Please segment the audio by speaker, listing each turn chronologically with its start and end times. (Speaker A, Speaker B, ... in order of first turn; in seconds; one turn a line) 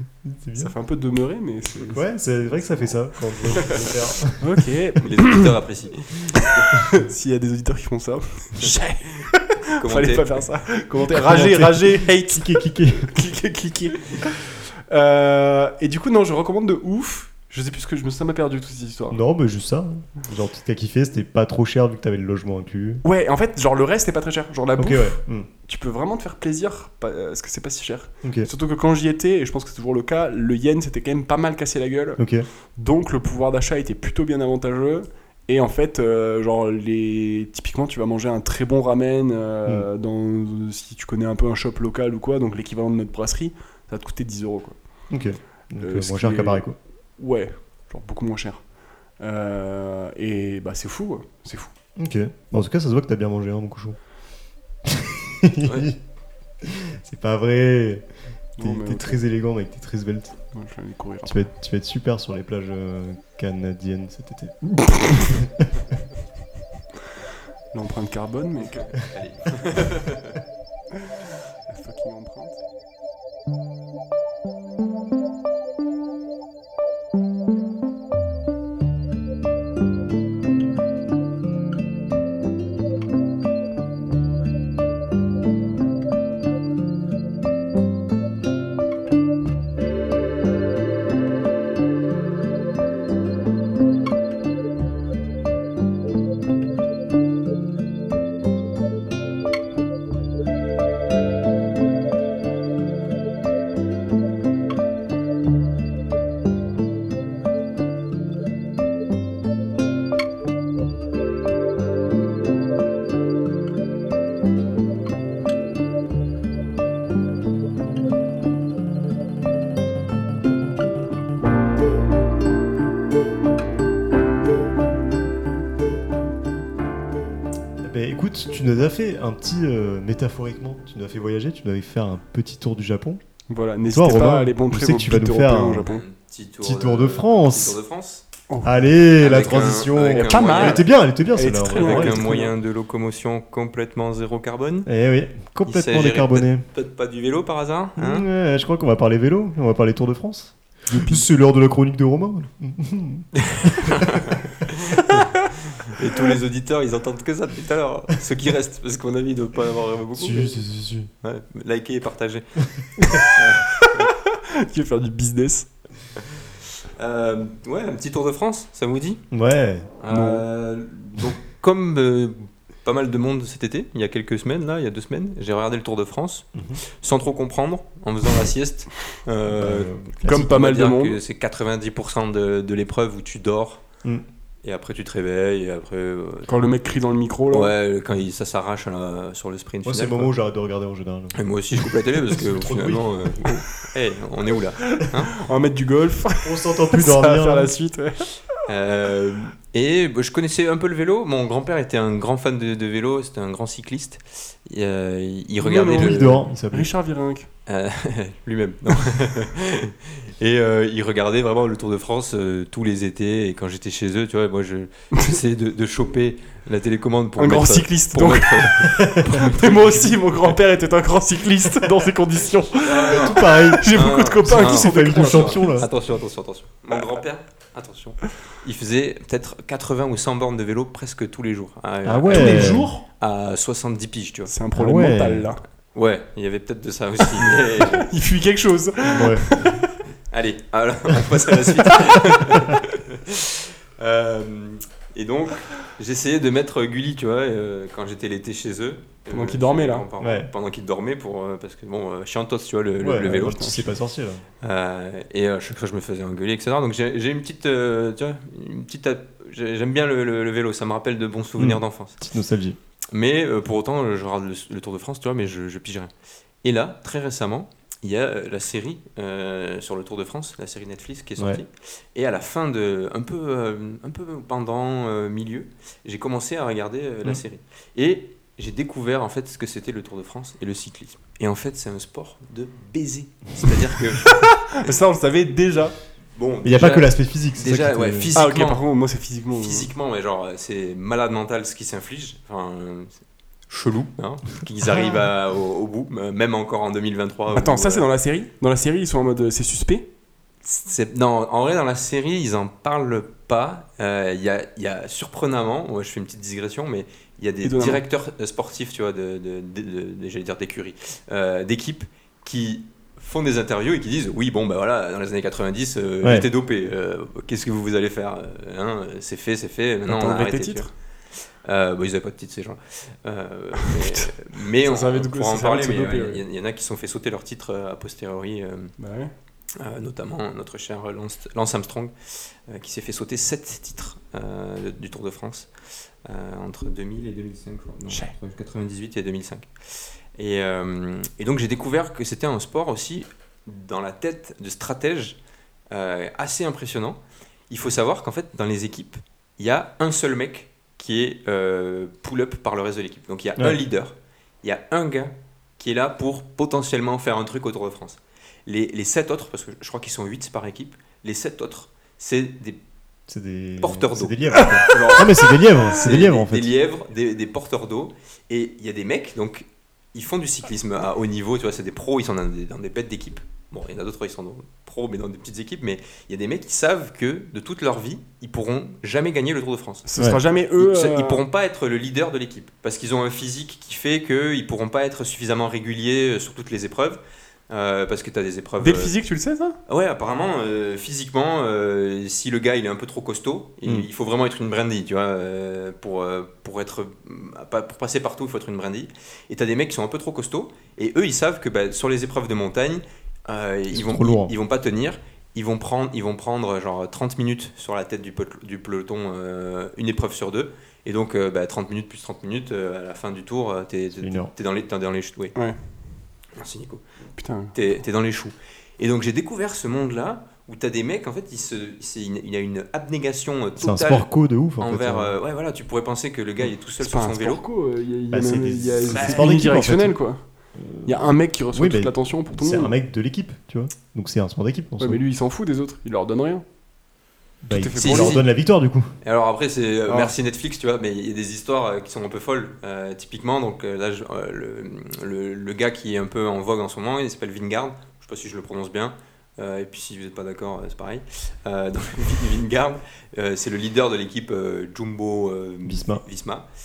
Speaker A: 0.2-0.7
Speaker B: 0.6-2.1
Speaker A: 1.9-4.5
Speaker B: 2.6-2.9
Speaker B: 3.6-3.9
Speaker B: 4.4-5.5
Speaker C: 5.0-6.7
Speaker B: 6.3-19.2
Speaker C: 9.8-10.5
Speaker A: 11.1-13.1
Speaker A: 19.1-23.0
Speaker B: 23.0-32.2
Speaker A: 24.8-25.5
Speaker A: 28.2-28.5
Speaker A: 32.2-32.5
Speaker B: 32.8-44.8
Speaker A: 45.1-46.8
Speaker B: 45.8-46.6
Speaker B: 47.2-48.6
Speaker B: 49.2-51.7
Speaker A: 52.0-54.0
Speaker A: 54.9-56.0
Speaker C: 55.6-55.9
Speaker A: 56.6-58.0
Speaker B: 58.6-59.2
Speaker A: 58.6-60.4
Speaker B: 60.5-61.5
Speaker A: 61.2-65.8
Speaker B: 64.8-65.2
Speaker B: 67.7-68.9
Speaker C: 68.7-70.4
Speaker B: 71.7-72.6
Speaker A: 127.8-133.2
Speaker B: 133.5-136.0
Speaker A: 133.9-135.9
Speaker C: 135.9-138.2
Speaker A: 136.6-137.8
Speaker B: 138.5-138.9
Speaker A: 138.6-142.4
Speaker C: 139.2-140.8
Speaker B: 140.1-142.5
Speaker C: 141.7-144.9
Speaker A: 144.9-146.7
Speaker C: 145.7-148.3
Speaker A: 148.0-154.2
Speaker B: 150.9-151.2
Speaker C: 153.4-160.6
Speaker B: 155.1-155.4
Speaker A: 160.2-161.1
Speaker C: 161.2-164.1
Speaker B: 163.8-165.7
Speaker C: 167.0-169.2
Speaker A: 169.3-169.9
Speaker C: 170.0-183.8
Speaker B: 170.1-170.4
Speaker A: 176.6-176.8
Speaker A: 179.5-180.5
Speaker B: 180.3-181.2
Speaker C: 184.6-186.7
Speaker B: 186.5-187.7
Speaker C: 187.5-190.3
Speaker A: 189.8-193.1
Speaker C: 191.3-195.4
Speaker B: 194.9-198.4
Speaker A: 196.4-197.7
Speaker C: 198.6-206.4
Speaker B: 205.6-207.5
Speaker A: 205.9-206.9
Speaker C: 207.7-220.5
Speaker B: 217.4-225.8
Speaker A: 219.0-219.3
Speaker C: 222.8-234.5
Speaker A: 223.1-225.9
Speaker A: 232.1-232.9
Speaker B: 232.3-233.0
Speaker B: 234.5-235.6
Speaker A: 234.8-235.5
Speaker C: 235.9-238.1
Speaker B: 237.4-240.0
Speaker A: 239.1-239.4
Speaker C: 240.3-253.9
Speaker B: 249.3-250.1
Speaker A: 250.2-250.5
Speaker A: 253.0-254.4
Speaker C: 254.6-262.2
Speaker A: 261.6-262.8
Speaker C: 263.1-266.1
Speaker C: 266.6-284.4
Speaker B: 284.2-286.0
Speaker C: 286.4-288.8
Speaker A: 286.6-288.3
Speaker B: 288.4-289.9
Speaker C: 289.5-298.1
Speaker B: 297.5-300.1
Speaker C: 300.6-320.9
Speaker B: 307.6-308.0
Speaker B: 320.1-320.9
Speaker C: 321.6-328.9
Speaker B: 323.8-326.4
Speaker B: 329.0-329.3
Speaker C: 329.8-335.7
Speaker C: 336.2-339.7
Speaker C: 340.4-345.4
Speaker C: 345.9-347.2
Speaker C: 347.7-362.8
Speaker A: 363.3-366.8
Speaker C: 363.8-380.1
Speaker B: 380.1-381.4
Speaker C: 380.8-389.1
Speaker B: 388.8-389.8
Speaker C: 389.9-415.5
Speaker A: 403.9-404.5
Speaker A: 414.2-414.5
Speaker C: 416.6-417.1
Speaker B: 417.4-417.8
Speaker C: 417.7-427.6
Speaker A: 423.8-425.4
Speaker B: 427.0-430.4
Speaker A: 428.3-430.1
Speaker C: 429.1-429.4
Speaker A: 430.8-435.2
Speaker B: 431.1-432.9
Speaker B: 435.0-436.6
Speaker A: 437.6-439.1
Speaker B: 437.7-438.4
Speaker C: 438.0-438.5
Speaker C: 439.2-456.7
Speaker A: 455.9-456.2